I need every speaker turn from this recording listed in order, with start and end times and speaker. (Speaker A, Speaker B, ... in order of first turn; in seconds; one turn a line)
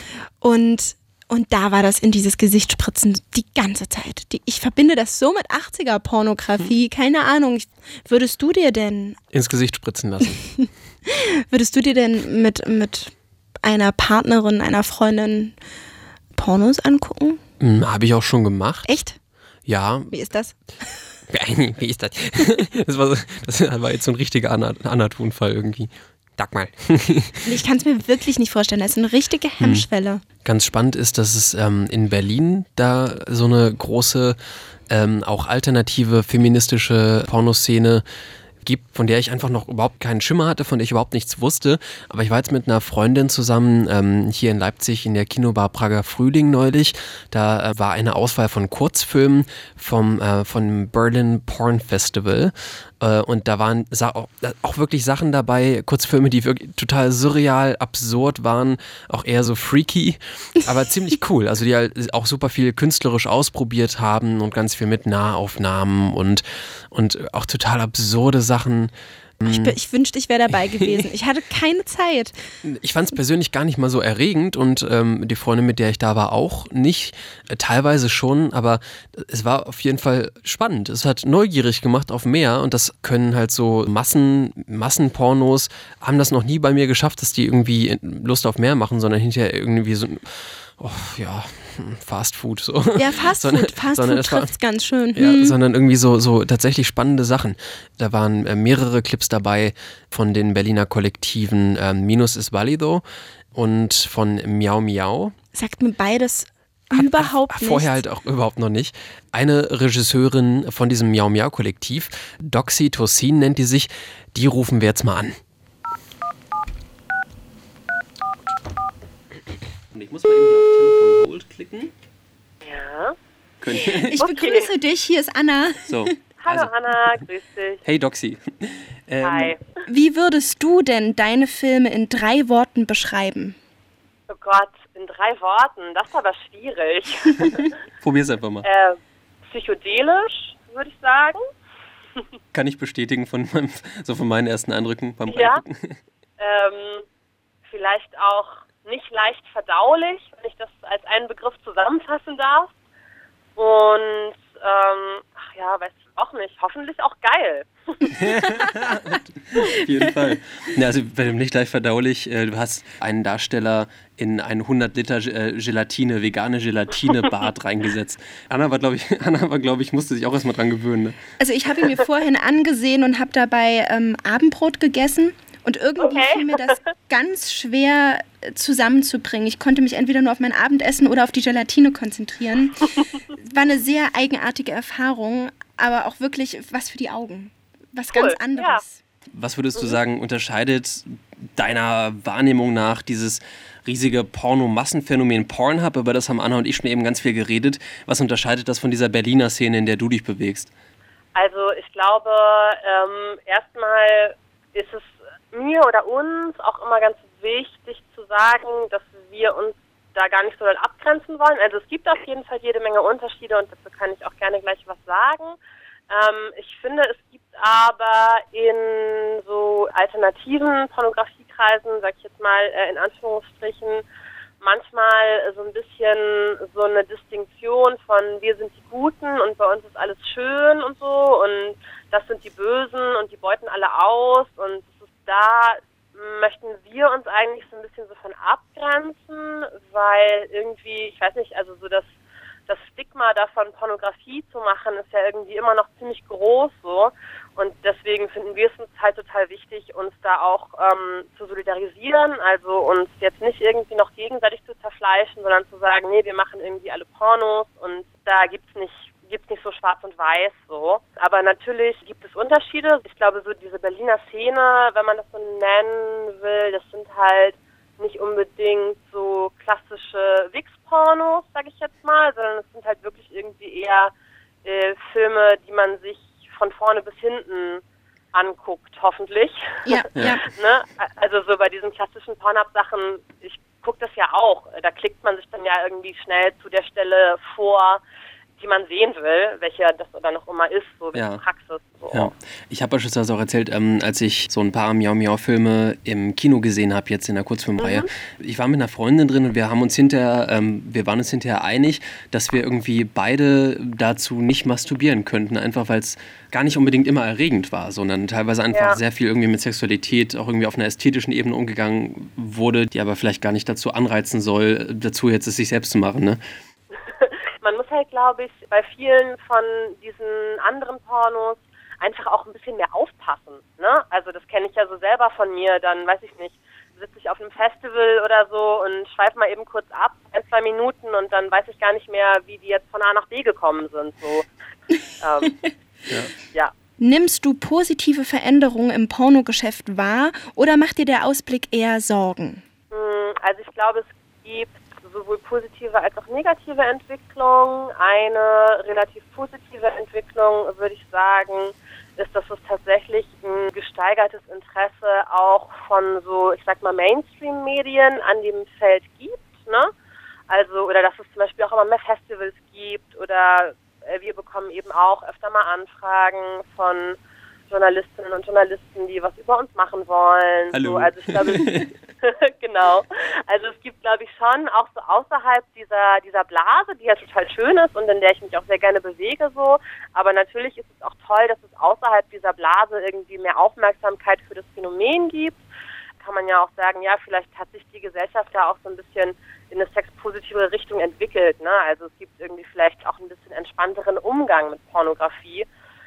Speaker A: 0.4-9.2
Speaker B: 9.3-10.4
Speaker A: 10.3-15.6
Speaker A: 16.3-17.4
Speaker B: 17.6-18.9
Speaker A: 18.9-19.2
Speaker B: 19.7-20.1
Speaker A: 20.1-20.9
Speaker B: 21.3-27.5
Speaker A: 27.4-30.2
Speaker B: 29.6-29.9
Speaker B: 30.4-34.4
Speaker B: 34.9-38.0
Speaker B: 38.6-69.8
Speaker A: 69.4-72.3
Speaker B: 72.6-94.5
Speaker A: 93.0-95.6
Speaker B: 95.1-105.3
Speaker A: 105.5-108.0
Speaker B: 106.9-115.3
Speaker B: 119.9-121.9
Speaker C: 122.6-123.1
Speaker B: 123.6-124.2
Speaker A: 123.8-126.1
Speaker C: 124.1-124.7
Speaker B: 125.9-126.7
Speaker C: 126.4-127.8
Speaker B: 127.8-129.5
Speaker C: 129.2-129.6
Speaker A: 129.8-133.6
Speaker C: 134.3-137.8
Speaker B: 138.0-138.6
Speaker C: 138.6-141.4
Speaker B: 142.5-146.0
Speaker C: 145.3-145.6
Speaker C: 146.4-147.0
Speaker C: 147.7-152.7
Speaker C: 153.6-158.7
Speaker B: 158.2-171.2
Speaker A: 171.4-182.8
Speaker C: 176.0-176.7
Speaker A: 183.3-189.0
Speaker C: 188.1-188.8
Speaker B: 189.3-200.7
Speaker C: 201.3-215.6
Speaker C: 216.1-224.0
Speaker C: 224.6-242.1
Speaker C: 242.7-274.1
Speaker C: 274.6-277.8
Speaker C: 278.3-288.0
Speaker A: 279.8-280.4
Speaker B: 280.1-280.4
Speaker C: 288.6-292.3
Speaker B: 291.1-291.4
Speaker B: 292.1-316.4
Speaker C: 297.8-298.1
Speaker C: 308.7-309.0
Speaker C: 316.9-334.5
Speaker C: 335.2-335.6
Speaker C: 336.4-336.7
Speaker A: 337.0-342.6
Speaker C: 342.9-359.9
Speaker C: 360.5-367.2
Speaker C: 367.7-385.6
Speaker B: 370.7-371.9
Speaker C: 386.2-395.7